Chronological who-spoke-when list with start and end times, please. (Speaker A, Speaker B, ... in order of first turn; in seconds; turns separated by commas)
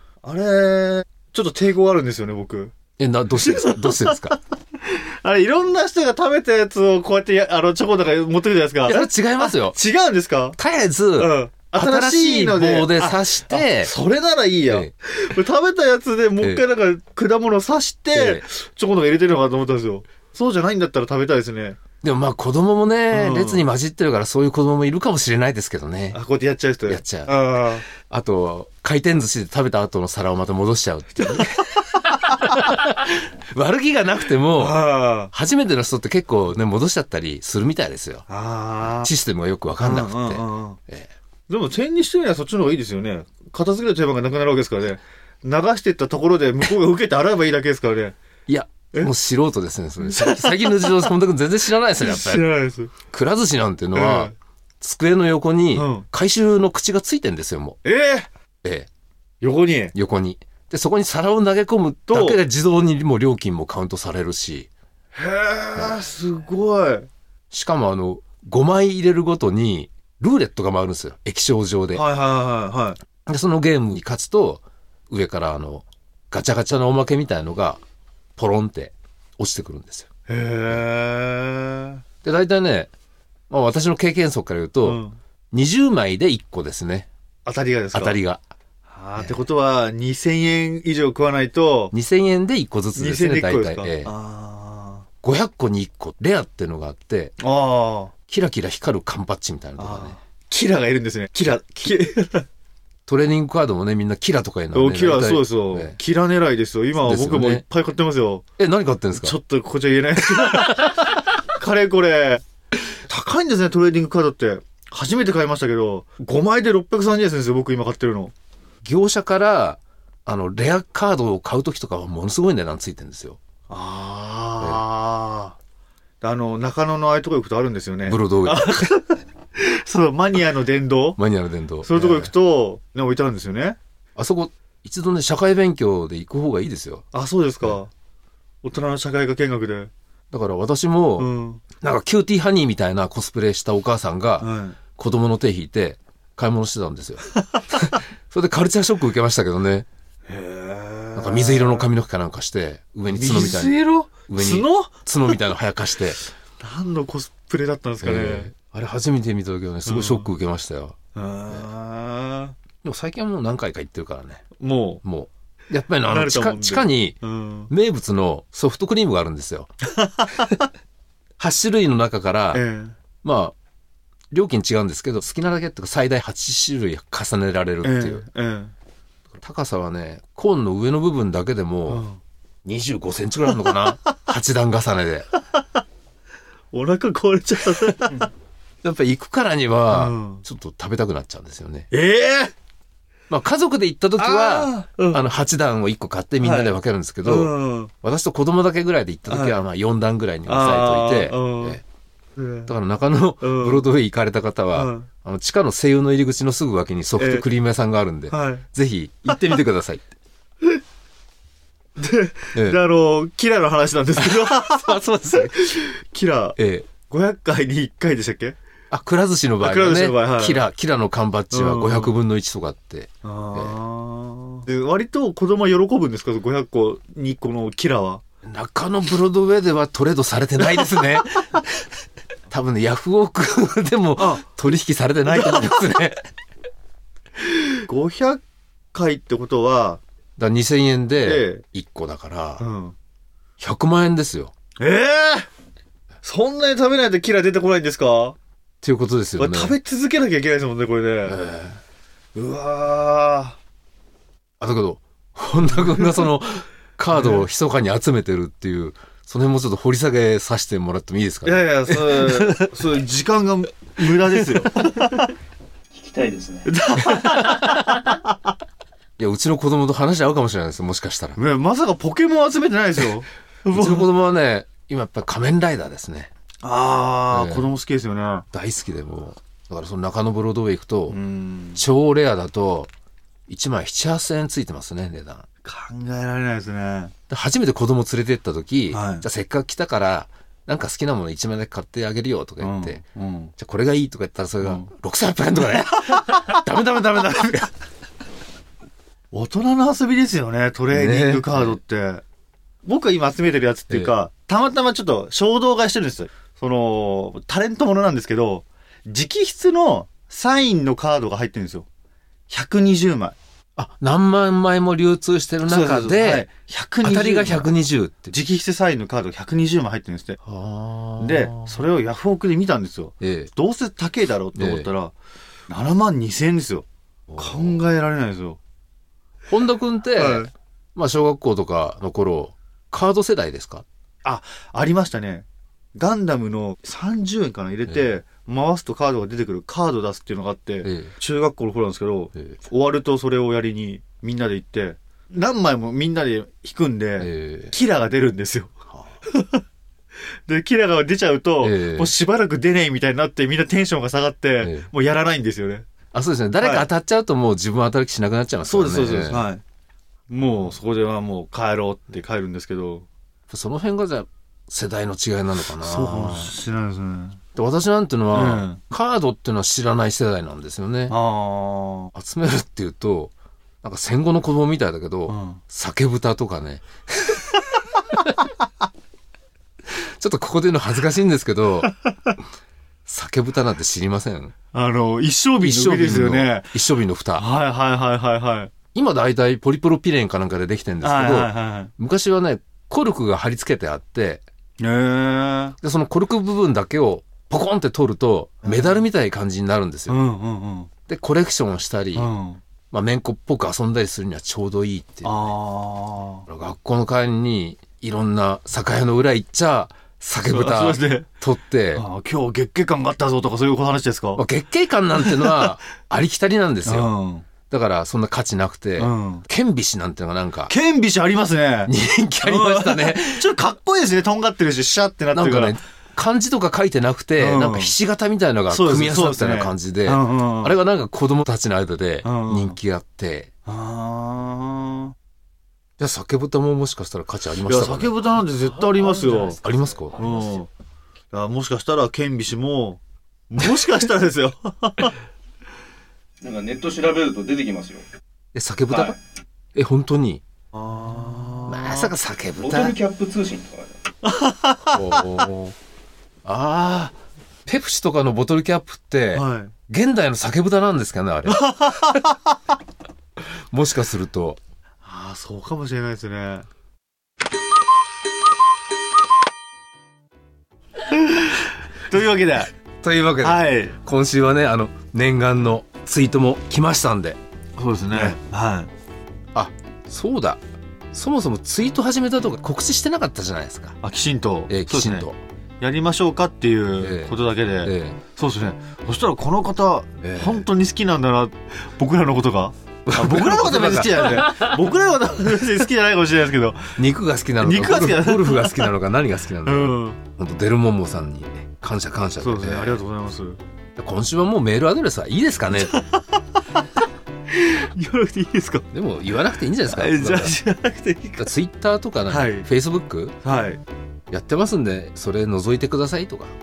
Speaker A: 0.2-2.7, Speaker B: 3.0-4.4, Speaker A: 3.4-10.6, Speaker B: 8.8-9.8, Speaker B: 10.6-13.9, Speaker A: 11.2-21.8, Speaker B: 18.1-18.4, Speaker B: 22.0-26.2, Speaker A: 23.1-23.6, Speaker A: 26.1-27.9, Speaker B: 26.9-38.2, Speaker A: 34.6-35.3, Speaker A: 38.3-39.1, Speaker B: 39.0-41.1, Speaker A: 39.8-40.8, Speaker A: 41.5-48.1, Speaker B: 48.5-52.5, Speaker A: 50.0-51.1, Speaker A: 52.0-52.9, Speaker B: 53.1-57.8, Speaker A: 53.9-54.3, Speaker A: 55.7-56.0, Speaker A: 57.8-58.3, Speaker A: 59.4-59.9, Speaker B: 59.9-64.7, Speaker A: 62.1-62.4, Speaker A: 65.1-67.1, Speaker B: 67.5-72.0, Speaker A: 71.9-73.0, Speaker B: 73.2-77.8, Speaker B: 78.4-80.1, Speaker A: 80.3-82.0, Speaker B: 82.2-82.9, Speaker B: 83.5-85.0, Speaker A: 84.8-85.2, Speaker B: 85.5-87.1, Speaker A: 87.4-88.2, Speaker B: 87.9-88.4, Speaker A: 88.9-91.9, Speaker B: 89.1-89.5, Speaker B: 91.9-94.1, Speaker A: 92.9-95.0, Speaker B: 95.2-97.3, Speaker A: 97.4-98.1, Speaker B: 98.3-100.2, Speaker A: 99.8-102.5, Speaker B: 103.1-106.0, Speaker A: 104.7-108.4, Speaker B: 107.0-107.6, Speaker B: 108.6-109.3, Speaker A: 109.1-112.4, Speaker B: 110.4-111.0, Speaker A: 113.1-118.3, Speaker B: 118.8-123.4, Speaker A: 123.7-125.5, Speaker A: 126.2-131.2, Speaker B: 128.1-128.9, Speaker B: 131.2-132.3, Speaker A: 131.8-133.8, Speaker B: 134.2-137.0, Speaker A: 137.1-137.9, Speaker A: 138.6-139.9, Speaker B: 140.3-149.8, Speaker A: 141.2-141.6, Speaker A: 144.4-144.8, Speaker A: 150.3-151.9, Speaker B: 151.2-156.2, Speaker A: 153.1-155.4, Speaker A: 156.6-158.5, Speaker B: 158.0-160.9, Speaker A: 159.8-160.3, Speaker A: 161.1-162.5, Speaker B: 162.8-164.4, Speaker A: 164.6-165.0, Speaker B: 165.0-167.2, Speaker A: 166.0-167.7, Speaker B: 167.7-169.7, Speaker A: 170.0-170.5, Speaker B: 171.4-172.6, Speaker A: 172.5-172.9, Speaker B: 173.2-173.5, Speaker B: 174.3-178.2, Speaker A: 177.8-178.7, Speaker B: 179.3-182.0, Speaker A: 181.9-182.2, Speaker B: 182.6-185.2, Speaker A: 186.7-188.3, Speaker B: 188.8-191.9, Speaker A: 189.9-190.4, Speaker A: 191.9-192.5, Speaker B: 193.3-201.8, Speaker A: 194.2-195.3, Speaker A: 196.4-197.9, Speaker A: 199.3-199.5, Speaker A: 200.5-201.8, Speaker A: 202.3-202.7, Speaker B: 202.7-210.0, Speaker A: 203.4-203.8, Speaker A: 204.7-205.1, Speaker A: 207.2-207.4, Speaker A: 208.3-208.6, Speaker A: 212.0-218.6, Speaker B: 212.5-212.8, Speaker B: 214.2-215.5, Speaker B: 216.6-216.9, Speaker B: 218.9-223.8, Speaker A: 219.6-220.6, Speaker A: 221.5-222.2, Speaker A: 223.2-228.2, Speaker B: 228.4-231.6, Speaker B: 232.5-236.2, Speaker A: 234.2-234.5, Speaker A: 235.2-235.8, Speaker A: 237.8-238.4, Speaker A: 238.9-240.0, Speaker B: 240.4-242.6, Speaker A: 241.2-241.6, Speaker A: 242.6-242.9, Speaker B: 243.6-244.5, Speaker A: 244.8-245.5, Speaker A: 246.2-248.3, Speaker B: 248.8-249.7, Speaker A: 249.4-251.4, Speaker B: 251.2-251.8, Speaker A: 252.3-253.6, Speaker B: 254.6-262.8, Speaker A: 255.8-256.1, Speaker A: 257.1-257.4, Speaker A: 261.4-265.3, Speaker B: 264.5-264.9, Speaker C: 266.0-266.6, Speaker A: 266.6-268.2, Speaker B: 269.2-271.4, Speaker A: 271.4-274.1, Speaker B: 273.7-276.3, Speaker A: 276.6-278.4, Speaker B: 277.3-277.7, Speaker B: 278.5-281.1, Speaker A: 281.1-281.8, Speaker B: 281.8-282.9, Speaker B: 283.5-285.4, Speaker A: 285.6-287.1, Speaker B: 287.3-293.0, Speaker A: 288.9-289.2, Speaker A: 292.6-293.5, Speaker B: 293.6-297.7, Speaker A: 294.6-294.9, Speaker A: 299.3-302.2, Speaker B: 300.9-301.8, Speaker A: 302.8-311.9, Speaker A: 312.5-313.4, Speaker B: 313.8-316.5, Speaker A: 315.6-317.7, Speaker B: 317.0-318.3, Speaker A: 318.3-320.4, Speaker B: 320.4-321.8, Speaker A: 321.2-325.1, Speaker B: 323.2-323.5, Speaker B: 324.5-324.9, Speaker A: 325.7-326.8, Speaker B: 327.3-327.9, Speaker A: 327.4-328.6, Speaker B: 329.5-333.8, Speaker A: 330.1-330.5, Speaker A: 334.2-335.4, Speaker A: 335.9-348.7, Speaker B: 340.8-341.1, Speaker B: 347.2-347.7, Speaker A: 349.3-349.6, Speaker A: 350.4-355.9, Speaker B: 351.6-352.1, Speaker B: 354.6-354.9, Speaker B: 356.1-359.4, Speaker A: 356.6-356.9, Speaker A: 358.6-359.6, Speaker A: 360.3-363.1, Speaker B: 363.5-366.5, Speaker A: 365.8-367.4, Speaker B: 367.5-371.1, Speaker A: 368.3-368.8, Speaker A: 371.1-372.1, Speaker B: 372.1-378.3, Speaker A: 375.3-375.6, Speaker B: 380.2-381.9, Speaker A: 381.8-382.4, Speaker B: 383.1-384.5, Speaker A: 384.7-386.7, Speaker B: 385.6-387.4, Speaker A: 387.4-388.7, Speaker B: 388.9-394.4, Speaker A: 391.0-391.9, Speaker A: 394.8-395.8, Speaker B: 395.8-400.2, Speaker A: 398.6-399.0, Speaker A: 400.1-400.9, Speaker B: 401.1-402.3, Speaker A: 402.1-402.6, Speaker B: 402.9-405.5, Speaker A: 405.2-406.4, Speaker B: 406.5-412.0, Speaker A: 410.4-411.3, Speaker A: 411.9-414.4, Speaker B: 414.3-417.1, Speaker A: 415.3-415.6, Speaker A: 416.8-417.4, Speaker B: 417.7-420.7, Speaker A: 419.0-419.4, Speaker A: 420.7-425.8, Speaker B: 421.9-423.5, Speaker B: 425.3-433.5, Speaker A: 427.4-427.9, Speaker A: 428.7-430.8, Speaker A: 432.2-432.8, Speaker A: 433.6-435.1, Speaker B: 436.0-438.1, Speaker A: 437.6-439.6, Speaker B: 439.5-440.5, Speaker A: 440.1-440.7, Speaker A: 441.3-445.1, Speaker C: 446.4-448.1, Speaker B: 448.5-449.2, Speaker B: 449.7-450.4, Speaker A: 450.7-452.1, Speaker B: 451.7-453.0, Speaker C: 452.6-453.9, Speaker A: 454.2-455.4, Speaker B: 454.9-455.7, Speaker B: 456.4-462.1, Speaker A: 459.3-459.7, Speaker A: 461.4-462.5, Speaker B: 463.7-464.6, Speaker A: 465.0-466.6, Speaker A: 471.1-472.7, Speaker B: 473.0-477.4, Speaker A: 473.4-473.9, Speaker A: 477.8-478.9, Speaker B: 479.5-480.6, Speaker B: 481.1-484.0, Speaker A: 484.0-485.3, Speaker B: 484.7-485.4, Speaker A: 485.8-496.9, Speaker B: 487.0-488.2, Speaker B: 490.2-490.6, Speaker B: 493.1-494.6, Speaker B: 497.0-503.0, Speaker A: 497.6-498.9, Speaker A: 499.6-500.2, Speaker A: 502.4-503.6, Speaker B: 504.0-506.0, Speaker A: 505.8-506.3, Speaker A: 507.5-508.9, Speaker B: 508.9-510.6, Speaker A: 509.9-511.5, Speaker B: 511.4-513.4, Speaker A: 512.3-512.7, Speaker A: 513.4-513.8, Speaker B: 514.3-516.5